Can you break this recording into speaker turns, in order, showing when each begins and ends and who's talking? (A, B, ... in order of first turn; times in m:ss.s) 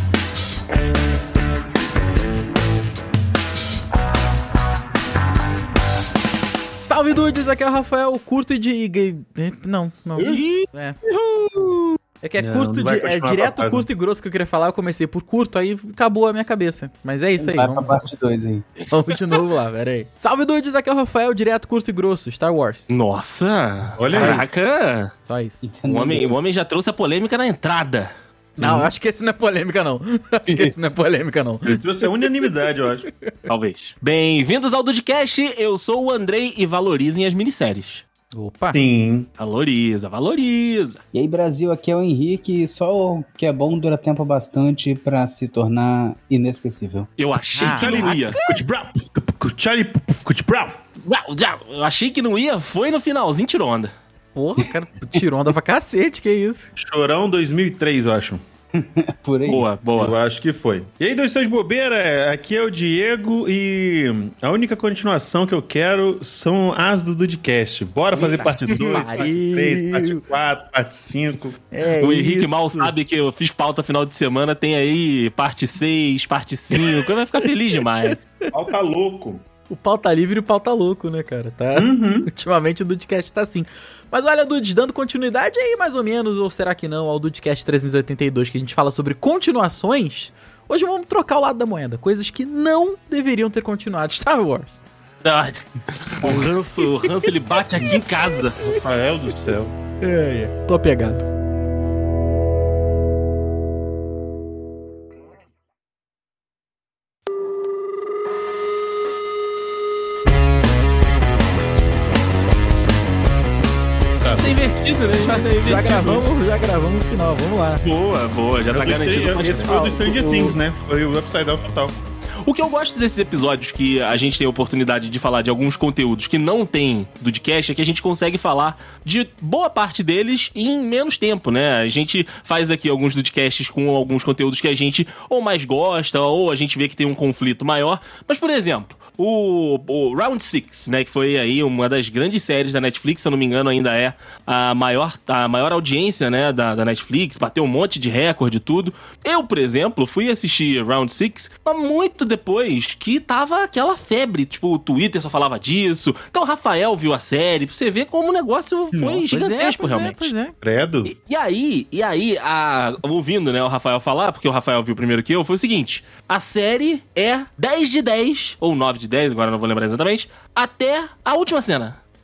0:06.7-0:11.0 A
0:10.2-0:12.0 B
0:12.2-0:18.1 A
0:12.4-0:13.9 C
0:17.4-0:18.6 D
0:18.9-0:22.9 A
0:22.9-0:25.1 B
0:24.0-0:24.4 C
0:24.1-0:24.6 A
0:25.2-0:25.6 A
0:25.6-0:26.3 D
0:25.8-0:28.1 B
0:28.6-0:28.9 C
0:28.6-0:32.3 A
0:31.6-0:33.0 C
0:33.5-0:38.0 B
0:38.3-0:38.8 A
0:38.7-0:39.3 C
0:39.4-0:41.0 B
0:41.1-0:47.1 D
0:47.2-0:48.4 B
0:47.5-0:48.6 A
0:47.8-0:50.8 C
0:51.0-0:53.9 B
0:54.3-0:56.7 A
0:56.8-0:58.4 C
0:58.8-0:59.6 D
0:59.4-1:00.2 B
1:00.0-1:11.6 C
1:08.2-1:09.0 B
1:08.2-1:10.2 A
1:11.7-1:12.9 A
1:12.0-1:18.2 B
1:18.5-1:19.4 C
1:19.7-1:34.8 A
1:21.7-1:22.3 C
1:35.2-1:38.7 B
1:36.2-1:37.1 A
1:37.9-1:38.8 A
1:38.7-1:39.7 C
1:40.0-1:41.2 A
1:54.2-1:54.6 C
1:54.3-1:56.3 B
1:55.2-1:57.8 A
1:57.8-1:59.8 B
1:58.7-2:02.0 C
1:59.7-2:00.6 A
2:02.4-2:40.3 B
2:38.9-2:39.2 D
2:39.3-2:40.5 A
2:40.6-2:41.1 C
2:41.0-2:52.0 B